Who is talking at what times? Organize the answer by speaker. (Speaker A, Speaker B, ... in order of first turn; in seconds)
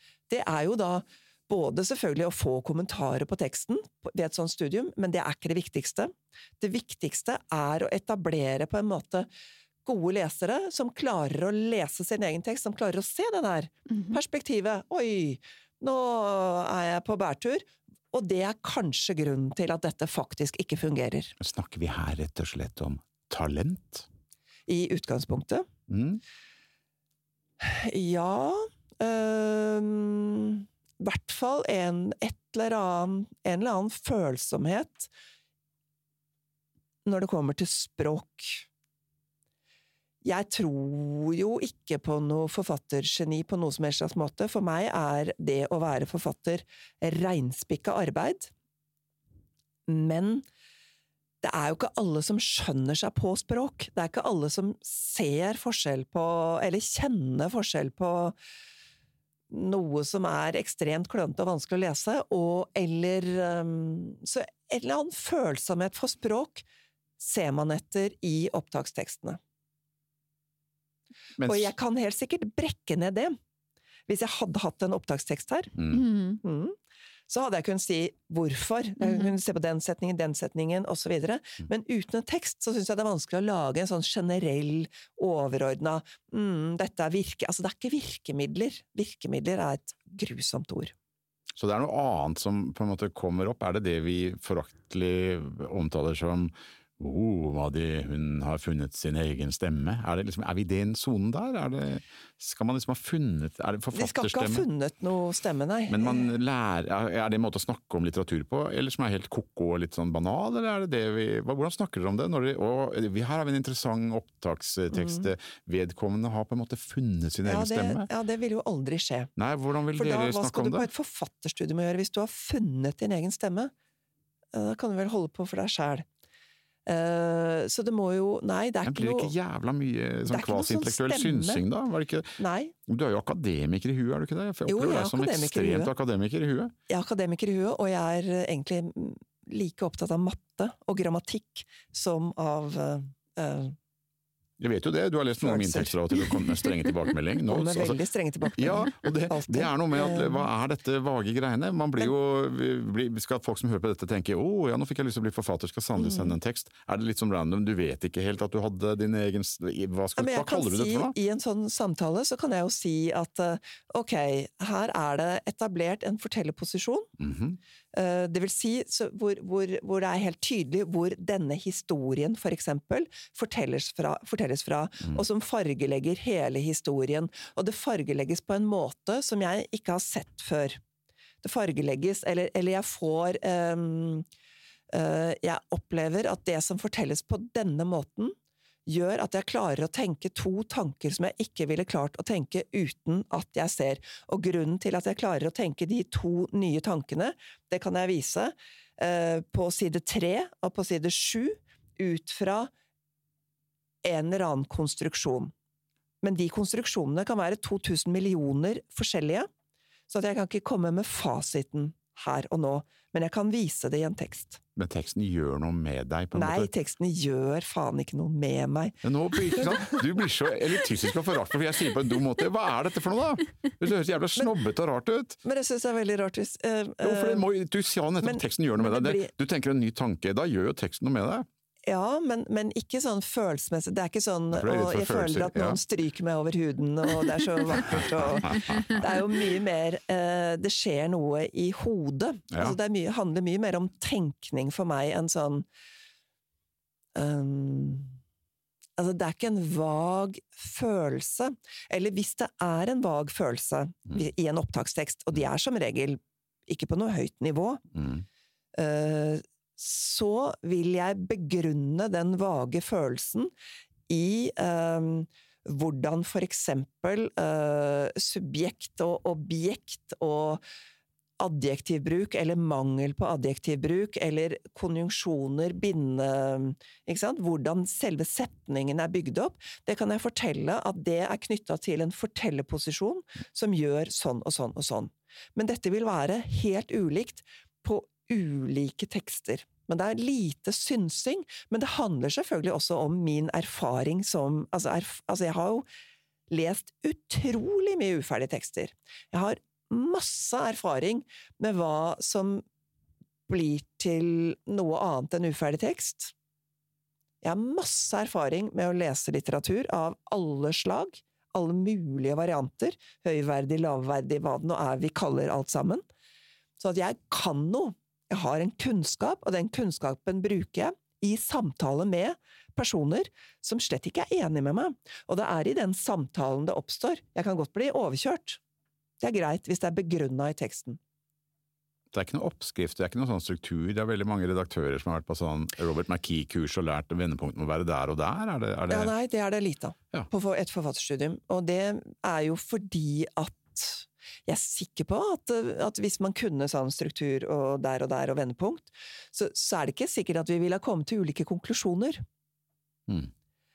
Speaker A: 0.3-9.3, 9.8-21.3, 24.7-25.7, 27.6-35.1, 37.0-38.7, 40.2-48.5, 49.9-50.5, 51.4-58.4, 59.5-66.7, 67.2-69.4, 71.4-73.4, 74.1-75.8, 76.4-76.8, 77.3-90.9, 103.9-106.3, 114.9-115.3, 117.5-119.3, 120.0-123.7, 124.5-126.1, 126.9-129.3, 130.3-131.6, 132.4-132.8, 134.7-135.9, 136.9-143.8, 145.4-146.2, 147.5-150.5, 160.2-167.1, 167.9-180.8, 181.4-184.3, 184.9-202.7, 204.0-205.5, 206.2-209.5, 210.1-214.6, 216.3-219.0, 219.5-220.0, 225.4-227.5, 228.2-229.3, 231.9-245.7, 247.2-248.2, 249.0-257.8, 258.7-263.5, 264.1-270.6, 271.4-295.9, 296.5-302.6, 303.5-306.3, 307.4-316.0, 316.8-328.6, 329.2-331.0, 338.9-352.2
Speaker B: 13.9-14.2, 75.9-76.4, 79.0-79.3, 156.0-156.3, 238.6-239.0
Speaker C: 21.4-24.1, 25.9-26.2, 71.4-71.7, 75.8-76.0, 91.6-104.7, 105.9-118.1, 119.4-120.9, 128.8-136.7, 144.6-148.0, 148.6-161.2, 167.2-167.6, 214.8-216.7, 219.0-225.4, 227.0-231.5, 234.5-235.8, 237.7-239.0, 242.5-242.8, 258.0-258.2, 332.1-339.1